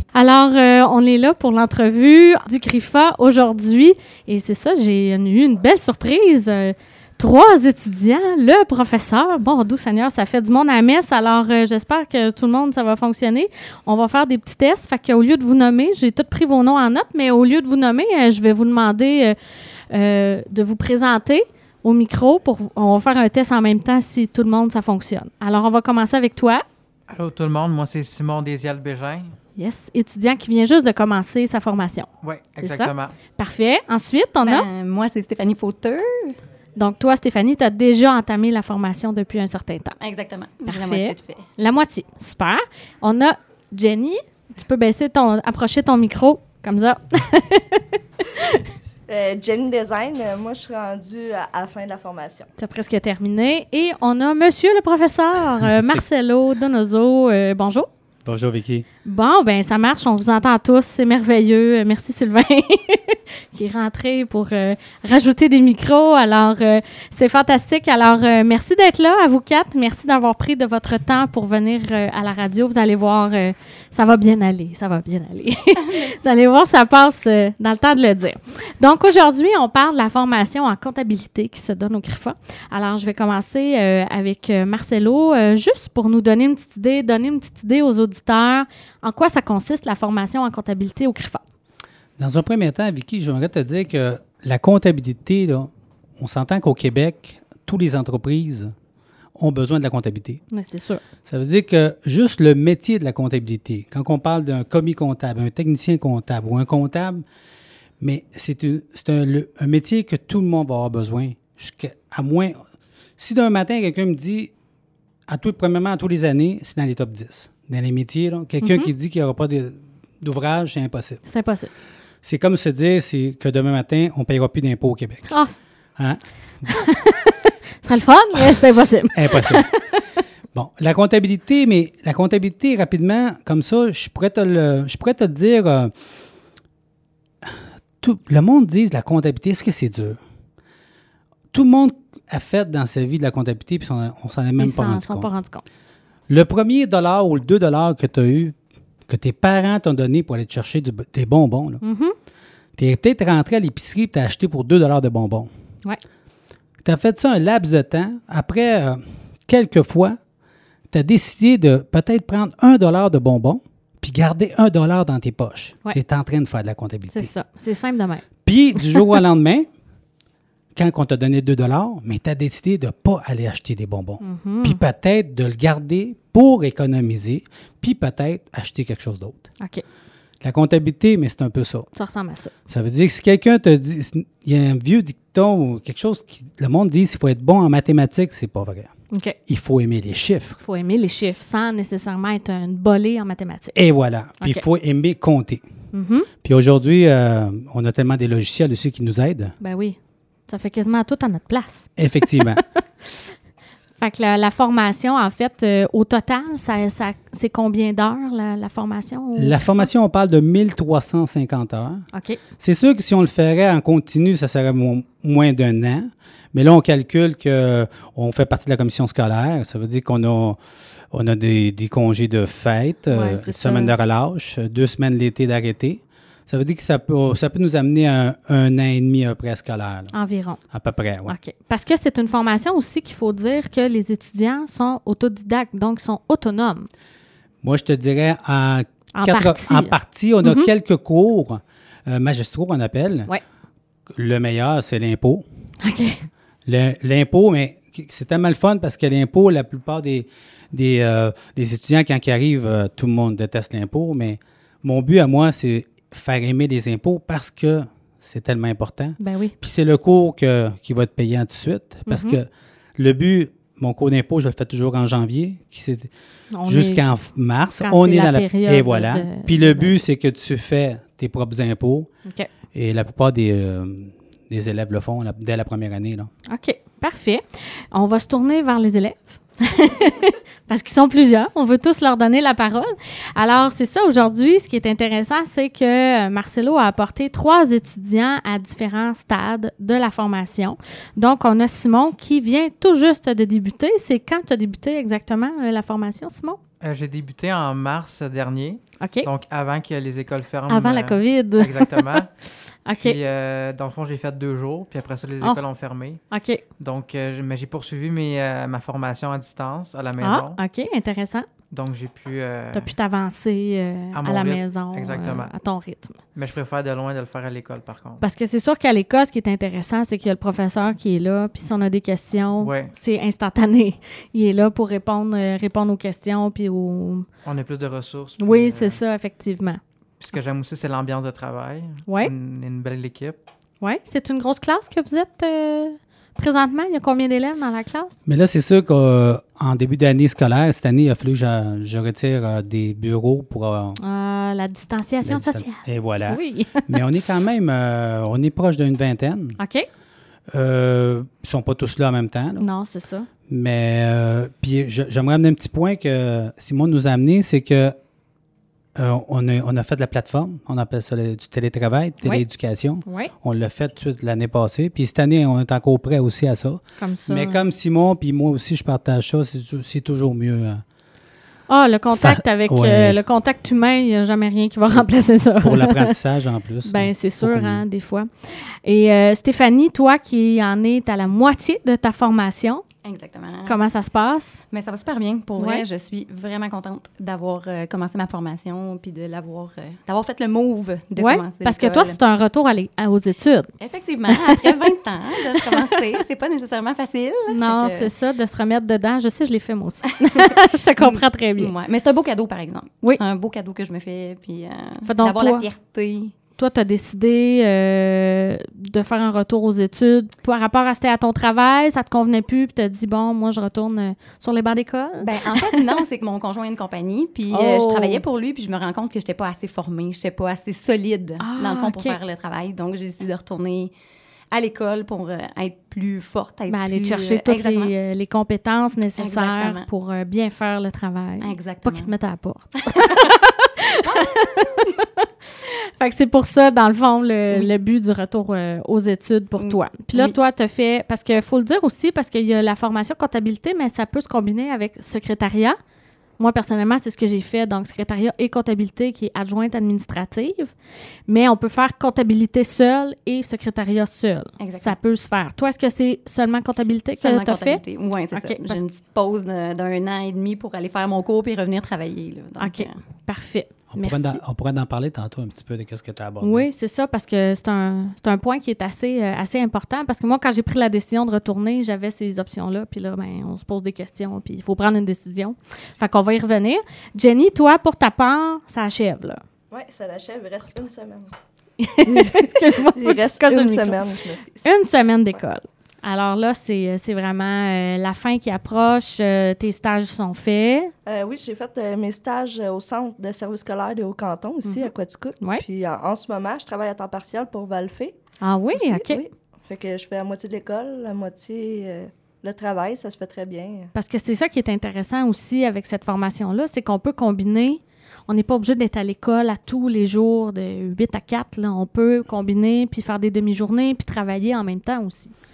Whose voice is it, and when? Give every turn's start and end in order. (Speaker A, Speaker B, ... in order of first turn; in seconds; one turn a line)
Speaker A: 0.1-19.4
Speaker A: 19.9-26.6
Speaker B: 27.1-29.4
Speaker A: 29.6-32.1
Speaker B: 32.2-33.2
Speaker A: 32.6-34.7
Speaker C: 34.5-36.4
Speaker A: 36.8-40.0
Speaker C: 40.0-41.5
Speaker A: 40.7-48.6
Speaker D: 49.1-52.5
Speaker A: 52.6-57.9
Speaker E: 58.2-58.9
Speaker A: 59.0-91.4
Speaker C: 75.9-76.1
Speaker E: 92.2-98.7
Speaker E: 99.4-100.4
Speaker A: 100.5-101.0
Speaker E: 101.3-107.2
Speaker E: 108.0-112.6
Speaker E: 113.2-114.5
Speaker E: 115.3-121.2
Speaker A: 118.6-118.9
Speaker A: 121.2-121.7
Speaker E: 122.2-125.3
Speaker E: 126.0-126.8
Speaker A: 126.7-130.0
Speaker E: 129.1-129.7
Speaker E: 130.5-135.9
Speaker E: 137.4-140.2
Speaker E: 141.5-145.3
Speaker A: 144.6-145.6
Speaker E: 146.3-148.6
Speaker E: 149.1-151.8
Speaker A: 151.8-152.2
Speaker E: 152.8-155.5
Speaker E: 156.8-160.2
Speaker E: 160.9-167.3
Speaker A: 167.1-168.2
Speaker E: 168.4-169.7
Speaker A: 168.8-169.1
Speaker E: 170.8-179.4
Speaker A: 174.2-174.8
Speaker E: 180.4-181.9
Speaker A: 181.9-182.5
Speaker E: 182.7-188.9
Speaker A: 189.1-189.4
Speaker E: 189.5-190.6
Speaker A: 190.6-193.8
Speaker E: 193.7-195.6
Speaker A: 195.9-196.3
Speaker E: 196.4-199.6
Speaker A: 199.6-203.3
Speaker E: 202.0-202.6
Speaker A: 204.0-209.9
Speaker E: 209.4-212.1
Speaker A: 212.1-212.4
Speaker E: 212.6-220.6
Speaker E: 221.1-230.1
Speaker A: 223.1-223.9
Speaker A: 230.1-230.6
Speaker E: 230.7-231.4
Speaker A: 231.3-236.9
Speaker E: 237.6-243.3
Speaker A: 239.1-240.7
Speaker E: 244.1-245.4
Speaker A: 245.8-246.3
Speaker E: 246.7-266.1
Speaker A: 259.2-259.6
Speaker A: 262.1-262.4
Speaker A: 266.5-267.0
Speaker E: 266.6-272.1
Speaker A: 267.8-269.9
Speaker E: 272.7-276.3
Speaker A: 276.5-296.6
Speaker B: 296.8-302.3
Speaker A: 299.0-299.3
Speaker A: 300.7-302.2
Speaker A: 302.9-303.2
Speaker B: 303.0-306.2
Speaker A: 306.3-306.6
Speaker B: 306.8-310.6
Speaker A: 310.2-311.5
Speaker B: 311.7-312.9
Speaker A: 312.7-316.2
Speaker B: 314.1-315.5
Speaker B: 316.4-318.2
Speaker A: 318.2-327.3
Speaker B: 322.6-322.9
Speaker B: 327.4-329.0
Speaker A: 328.4-329.8
Speaker B: 330.2-333.4
Speaker A: 332.1-332.3
Speaker A: 333.8-338.2
Speaker E: 338.3-344.0
Speaker A: 344.0-347.1
Speaker E: 345.2-349.6
Speaker A: 349.6-349.9
Speaker E: 350.5-352.7
Speaker A: 352.6-353.3
Speaker E: 353.5-357.9
Speaker E: 358.9-370.8
Speaker A: 363.1-363.3
Speaker A: 367.0-367.6
Speaker A: 371.7-376.1
Speaker E: 372.1-373.2
Speaker E: 375.6-377.8
Speaker A: 376.9-382.8
Speaker C: 383.0-383.8
Speaker A: 383.7-384.6
Speaker C: 384.7-392.2
Speaker A: 385.6-385.9
Speaker A: 391.2-393.7
Speaker C: 393.8-398.1
Speaker A: 394.3-394.9
Speaker A: 395.6-396.0
Speaker A: 397.5-401.7
Speaker C: 400.4-406.3
Speaker A: 405.1-405.7
Speaker A: 406.6-415.9
Speaker C: 415.2-423.9
Speaker A: 417.5-418.2
Speaker A: 421.4-422.2
Speaker C: 424.5-427.9
Speaker A: 426.7-445.8
Speaker C: 429.2-429.9
Speaker C: 431.4-432.1
Speaker C: 432.8-433.3
Speaker C: 434.0-434.9
Speaker C: 439.6-440.4
Speaker A: 446.4-450.7
Speaker A: 451.3-457.8
Speaker C: 454.6-455.0
Speaker C: 457.2-463.0
Speaker A: 458.3-458.8
Speaker A: 462.6-464.4
Speaker E: 463.9-466.7
Speaker A: 466.4-479.4
Speaker D: 479.7-481.3
Speaker A: 481.8-484.1
Speaker D: 482.1-484.7
Speaker A: 484.6-490.9
Speaker D: 491.1-498.2
Speaker A: 494.6-495.6
Speaker A: 498.4-499.2
Speaker D: 498.7-503.9
Speaker A: 503.9-515.3